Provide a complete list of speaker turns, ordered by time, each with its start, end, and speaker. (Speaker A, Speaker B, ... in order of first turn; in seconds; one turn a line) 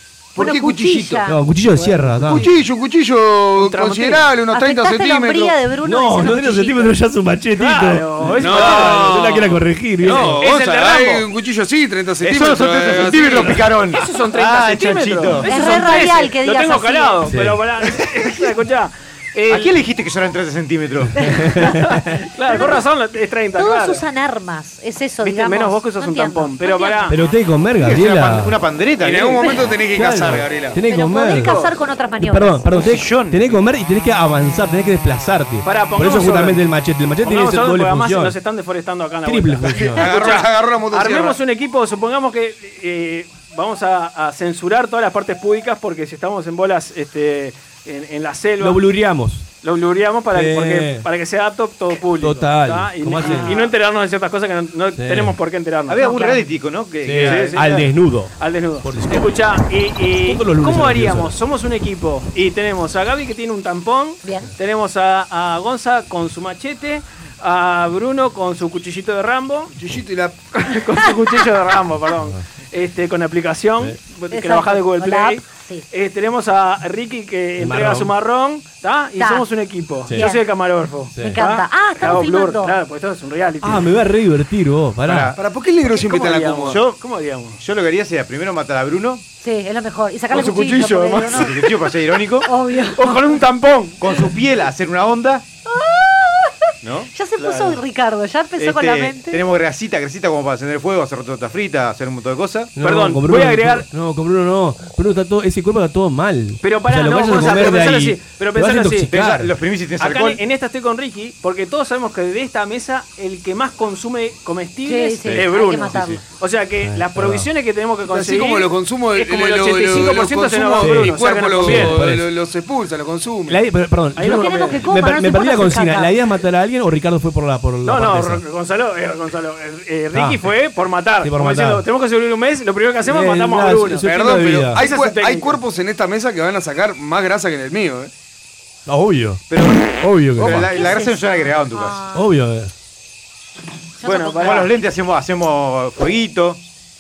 Speaker A: 0.3-1.2
Speaker B: 0.4-1.4
Speaker C: 1.3-2.5
Speaker D: 1.8-2.4
Speaker A: 2.2-5.5
Speaker D: 3.5-4.3
Speaker B: 4.5-6.9
Speaker C: 5.8-10.4
Speaker D: 7.5-9.3
Speaker A: 8.4-13.7
Speaker D: 10.0-11.2
Speaker E: 12.2-15.7
Speaker D: 13.9-19.7
Speaker B: 15.4-17.2
Speaker C: 17.3-17.6
Speaker E: 19.5-21.2
Speaker C: 21.2-22.2
Speaker D: 21.6-24.0
Speaker B: 22.5-22.9
Speaker B: 23.6-27.1
Speaker D: 25.2-27.2
Speaker C: 27.1-28.6
Speaker E: 27.8-29.5
Speaker A: 29.0-30.8
Speaker C: 29.9-31.6
Speaker B: 30.9-32.6
Speaker D: 31.2-31.7
Speaker C: 32.2-38.3
Speaker E: 32.7-33.5
Speaker D: 35.6-36.6
Speaker D: 37.2-48.8
Speaker C: 39.2-40.1
Speaker A: 39.8-41.4
Speaker C: 48.6-49.5
Speaker D: 49.6-56.4
Speaker C: 50.3-51.0
Speaker C: 52.2-53.6
Speaker B: 53.3-53.6
Speaker C: 55.0-55.4
Speaker E: 55.9-57.9
Speaker C: 57.0-59.5
Speaker D: 57.1-57.8
Speaker D: 58.4-69.7
Speaker C: 60.2-61.4
Speaker B: 64.2-64.5
Speaker A: 69.7-70.5
Speaker D: 70.6-83.8
Speaker B: 74.3-75.9
Speaker C: 77.6-78.1
Speaker B: 79.2-79.5
Speaker B: 80.1-80.4
Speaker C: 81.1-81.4
Speaker B: 81.2-82.7
Speaker C: 83.6-85.3
Speaker E: 85.0-85.4
Speaker A: 85.4-86.8
Speaker D: 85.9-87.6
Speaker E: 86.7-87.0
Speaker E: 87.6-89.2
Speaker B: 89.4-91.5
Speaker D: 90.3-91.5
Speaker E: 91.3-92.5
Speaker B: 92.5-93.3
Speaker D: 92.9-94.0
Speaker E: 94.0-95.4
Speaker B: 95.7-96.5
Speaker E: 96.8-97.1
Speaker B: 97.1-99.4
Speaker D: 97.4-97.8
Speaker E: 98.6-102.8
Speaker C: 102.8-109.5
Speaker D: 102.8-103.8
Speaker D: 106.6-109.1
Speaker E: 109.1-110.4
Speaker D: 110.0-122.0
Speaker B: 114.8-116.2
Speaker E: 115.3-116.2
Speaker C: 116.8-117.5
Speaker A: 118.1-123.6
Speaker C: 120.8-122.3
Speaker C: 123.5-128.4
Speaker D: 124.2-124.8
Speaker B: 124.2-126.2
Speaker D: 127.8-134.1
Speaker C: 130.1-130.5
Speaker C: 131.2-131.8
Speaker C: 133.1-134.8
Speaker A: 134.0-138.1
Speaker D: 134.7-135.6
Speaker C: 138.9-140.7
Speaker E: 139.5-142.0
Speaker B: 140.7-142.3
Speaker C: 142.1-142.7
Speaker B: 144.0-144.7
Speaker E: 144.0-146.6
Speaker D: 144.1-144.7